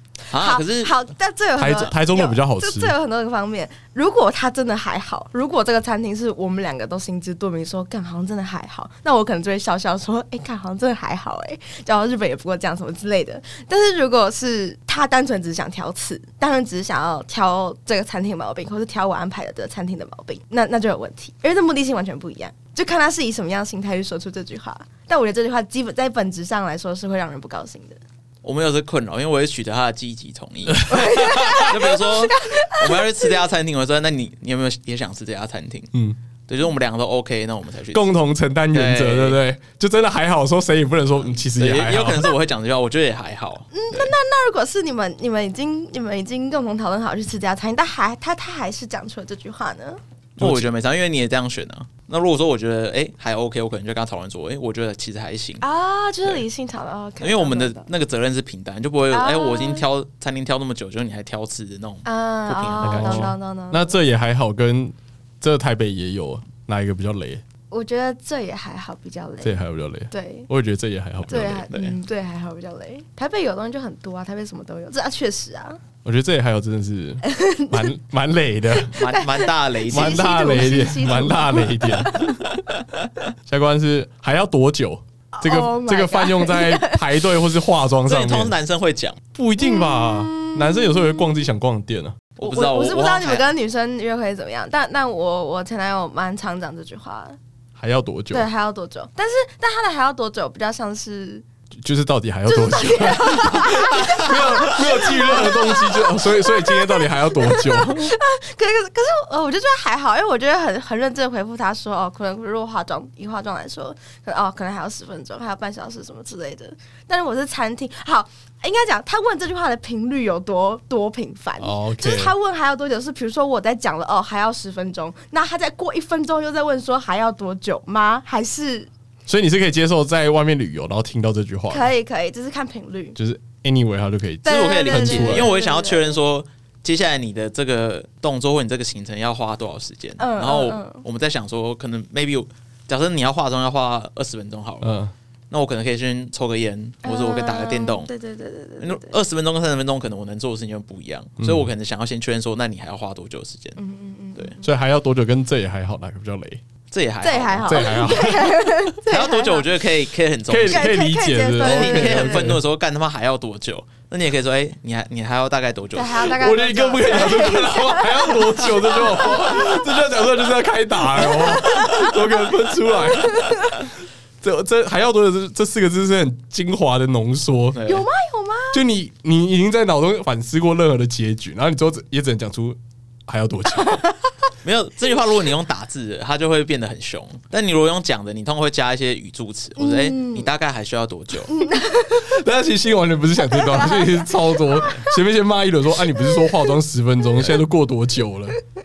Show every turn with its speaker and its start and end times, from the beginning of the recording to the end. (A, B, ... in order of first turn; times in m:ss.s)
0:00.3-0:00.9 A
0:00.3-0:28.0 B
0:01.6-0:03.0 C
0:28.4-0:35.9 A
0:30.7-0:31.7 C
0:30.9-0:33.4 B
0:35.9-0:36.2 C
0:36.5-0:38.2 A
0:37.9-0:42.3 C
0:38.7-0:39.4 A
0:41.6-0:44.1 A
0:43.7-0:50.0 B
0:50.4-0:55.6 A
0:50.4-0:50.7 C
0:55.6-0:57.9 B
0:57.2-1:03.3 A
0:59.1-0:59.9 B
1:02.0-1:04.0 B
1:02.8-1:07.4 C
1:07.7-1:10.5 B
1:09.4-1:11.7 C
1:11.3-1:15.8 B
1:11.7-1:12.0 A
1:16.0-1:19.0 C
1:17.2-1:17.9 B
1:18.8-1:22.6 B
1:18.9-1:20.3 A
1:19.9-1:22.4 C
1:23.5-1:28.5 C
1:25.3-1:27.3 B
1:28.1-1:29.2 A
1:29.3-1:32.2 C
1:29.6-1:31.5 B
1:32.4-1:33.5 A
1:32.4-1:37.4 B
1:37.8-1:38.5 C
1:38.3-1:41.4 B
1:41.8-1:48.2 C
1:42.5-2:08.9 B
2:01.6-2:02.3 C
2:09.3-2:11.9 C
2:11.7-2:13.2 B
2:13.2-2:15.5 C
2:14.4-2:16.2 B
2:14.5-2:25.0 A
2:20.2-2:21.0 B
2:24.8-2:25.1 C
2:25.5-2:28.1 A
2:27.0-2:29.2 B
2:28.8-2:33.8 A
2:31.4-2:31.7 C
2:33.8-2:34.6 B
2:34.6-2:36.6 C
2:36.9-2:38.2 A
2:37.2-2:39.8 B
2:37.6-2:38.6 C
2:39.1-2:40.9 A
2:40.5-2:42.6 C
2:40.7-2:42.6 B
2:41.6-2:46.4 A
2:45.9-2:50.0 B
2:46.3-2:53.9 C
2:51.0-2:53.9 B
2:54.4-2:57.8 C
2:57.7-2:58.1 A
2:57.8-2:58.8 B
2:58.7-3:04.1 C
3:03.8-3:04.2 B
3:04.6-3:11.6 A
3:09.8-3:10.5 B
3:11.5-3:12.4 B
3:12.2-3:18.6 C
3:13.4-3:15.2 B
3:16.1-3:16.8 B